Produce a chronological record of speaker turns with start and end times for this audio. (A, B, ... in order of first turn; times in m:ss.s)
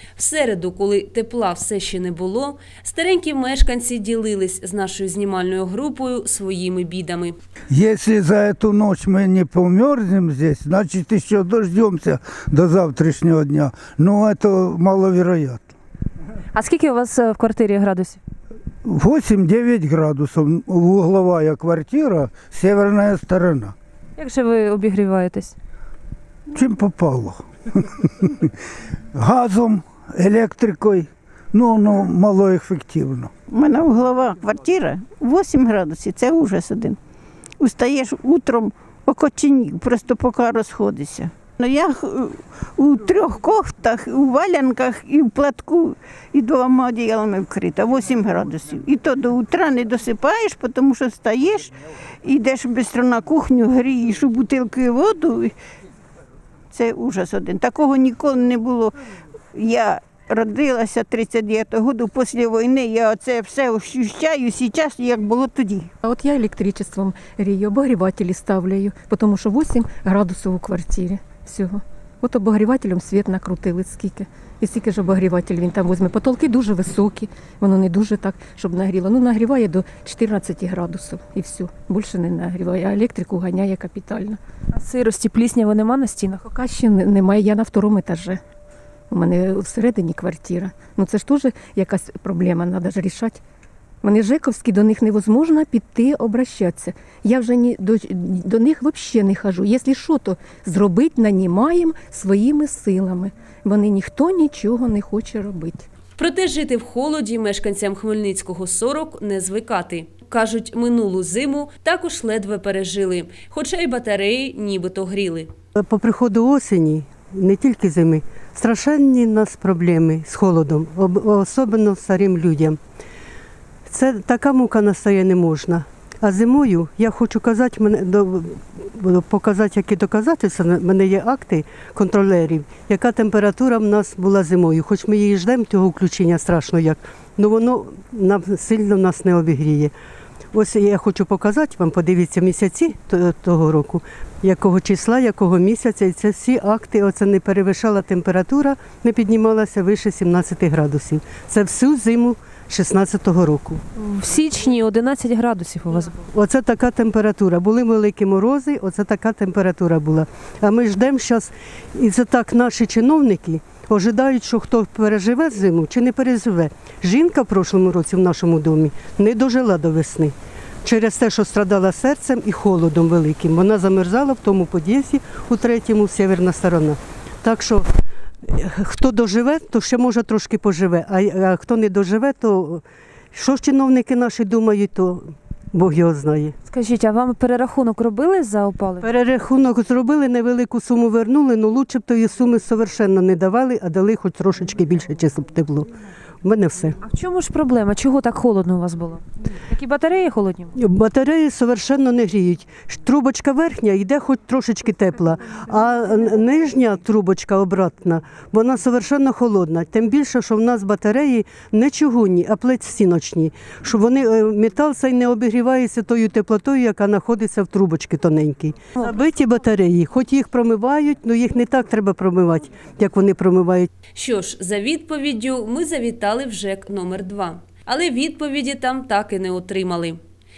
0:00.2-0:07.4 A
0:07.7-0:15.7 B
0:16.5-0:18.2 C
0:18.8-0:23.7 B
0:24.2-0:25.6 C
0:26.5-0:28.5 B
0:29.1-0:33.3 B
0:33.5-0:37.0 D
0:37.6-0:55.5 D
0:56.7-0:59.0 D
0:59.5-1:05.9 D
1:06.0-1:24.4 E
1:24.7-1:26.4 C
1:26.4-1:28.4 E
1:29.1-1:33.4 E
1:34.0-1:45.8 E
1:46.2-1:55.5 A
1:55.8-2:02.8 F
2:03.9-2:19.9 F
2:20.5-2:33.8 F
2:34.0-2:36.2 C
2:36.3-2:57.9 F
2:58.4-3:06.5 F
3:06.6-3:09.1 C
3:09.0-3:15.9 F
3:16.4-3:17.0 F
3:17.0-3:20.7 C
3:20.8-3:43.9 F
3:44.1-3:50.2 A